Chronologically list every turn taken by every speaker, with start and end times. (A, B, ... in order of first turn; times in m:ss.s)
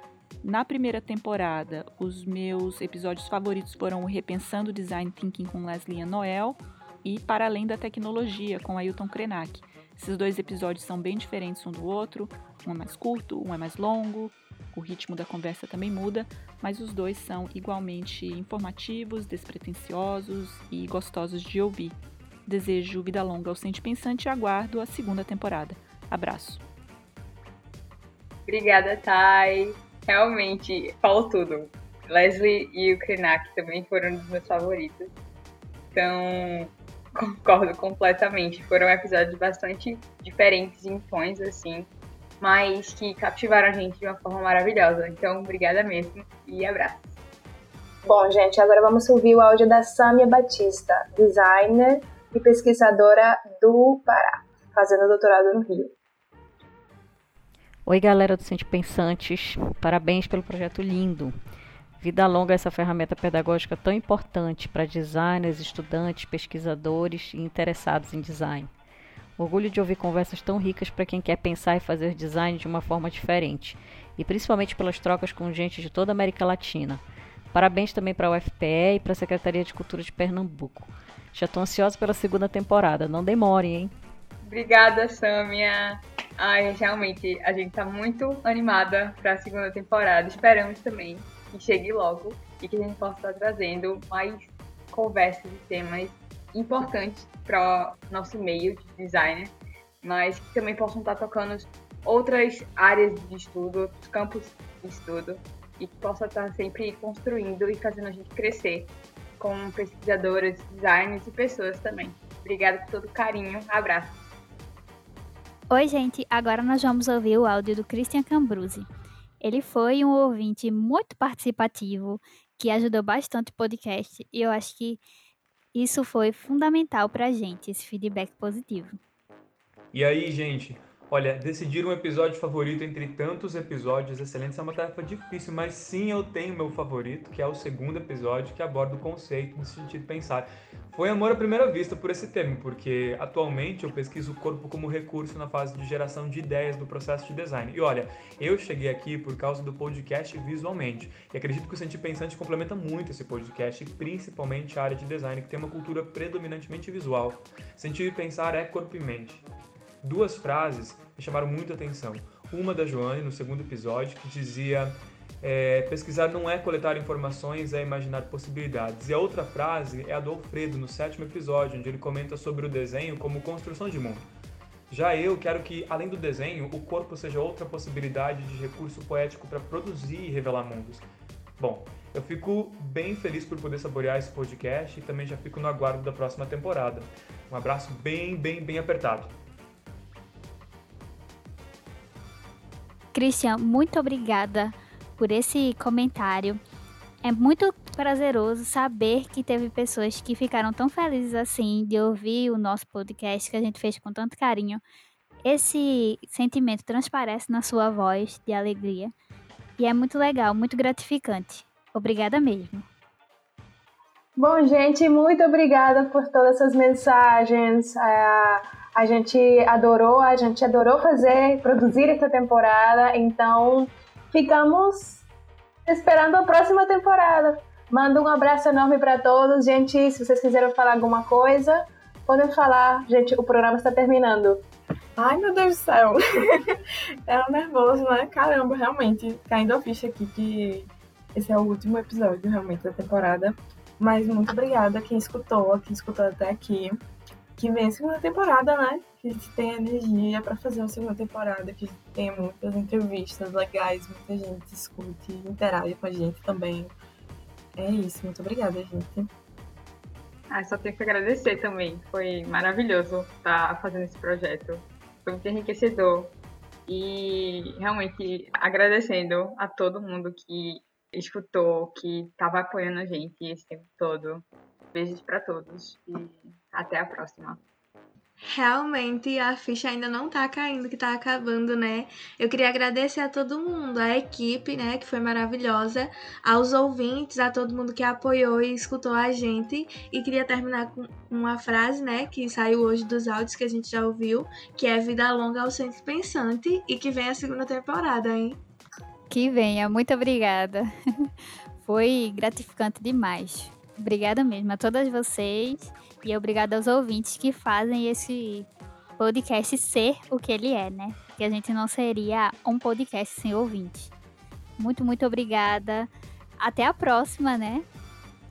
0:00.4-0:26.6 A
0:28.5-0:35.1 B
0:35.9-0:41.9 B
0:42.4-0:47.2 B
0:48.0-0:55.9 C
0:57.8-1:01.3 D
1:02.0-1:08.7 D
1:09.4-1:23.9 D
1:24.4-1:54.2 B
1:55.7-1:58.9 E
1:59.4-2:05.0 E
2:05.7-2:09.0 E
2:09.9-2:39.4 F
2:40.0-2:54.3 F
2:54.9-3:01.0 F
3:01.6-3:09.3 F
3:13.1-3:16.6 E
3:17.2-3:24.8 E
3:25.4-3:29.1 E
3:29.8-3:32.9 E
3:34.4-3:45.2 C
3:45.8-3:54.6 C
3:55.2-4:07.0 G
4:07.6-4:16.9 G
4:17.8-4:19.3 G
4:20.5-4:26.3 B
4:26.9-4:37.6 B
4:38.5-4:58.6 H
4:59.3-5:01.3 E
5:01.8-5:14.1 E
5:14.8-5:17.8 E